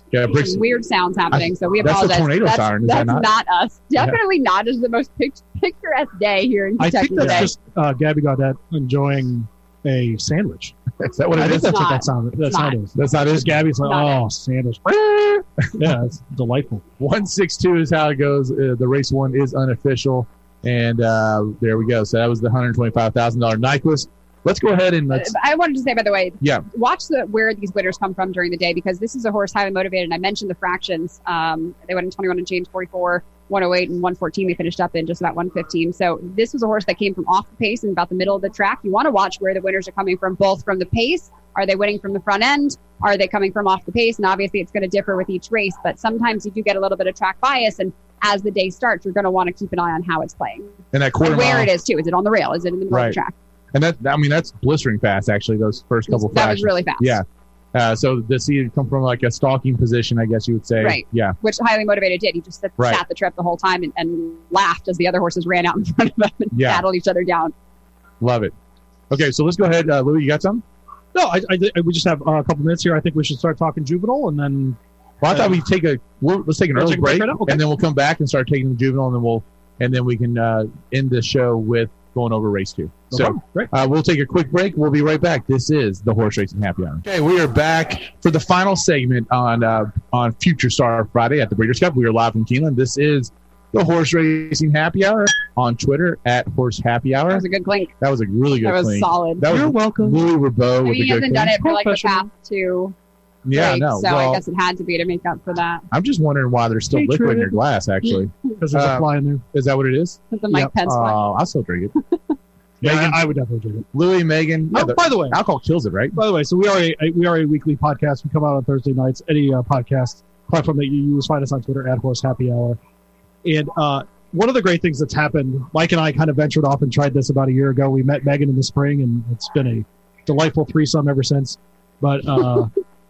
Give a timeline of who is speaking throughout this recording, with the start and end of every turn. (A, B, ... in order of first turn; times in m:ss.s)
0:00.1-0:00.6 A
0:00.3-0:07.5 B
0:01.3-0:03.3 A
0:06.8-0:10.8 C
0:07.2-0:07.5 A
0:11.0-0:11.8 A
0:11.3-0:16.8 C
0:11.5-0:12.8 B
0:13.0-0:13.6 A
0:13.8-0:14.2 B
0:17.0-0:25.3 A
0:25.1-0:53.3 B
0:50.9-0:51.7 A
0:52.9-0:53.2 A
0:53.7-1:01.4 A
0:56.1-0:57.2 B
1:00.8-1:07.5 B
1:06.5-1:06.8 A
1:08.2-1:08.5 A
1:09.1-1:10.6 A
1:11.1-1:14.8 C
1:15.2-1:37.4 A
1:16.8-1:17.6 C
1:23.1-1:23.7 C
1:37.3-1:37.9 B
1:38.0-1:41.6 A
1:38.6-1:39.5 B
1:39.5-1:40.2 C
1:40.8-1:43.0 B
1:41.4-1:42.3 C
1:43.4-1:44.4 A
1:43.5-1:45.9 B
1:45.9-1:50.2 A
1:46.9-1:47.6 C
1:48.6-1:49.4 C
1:50.3-1:51.2 B
1:50.8-1:51.9 A
1:52.8-1:53.9 C
1:52.8-1:53.2 A
1:53.9-1:56.2 A
1:54.7-1:55.4 C
1:56.2-2:02.8 C
2:03.4-2:12.7 C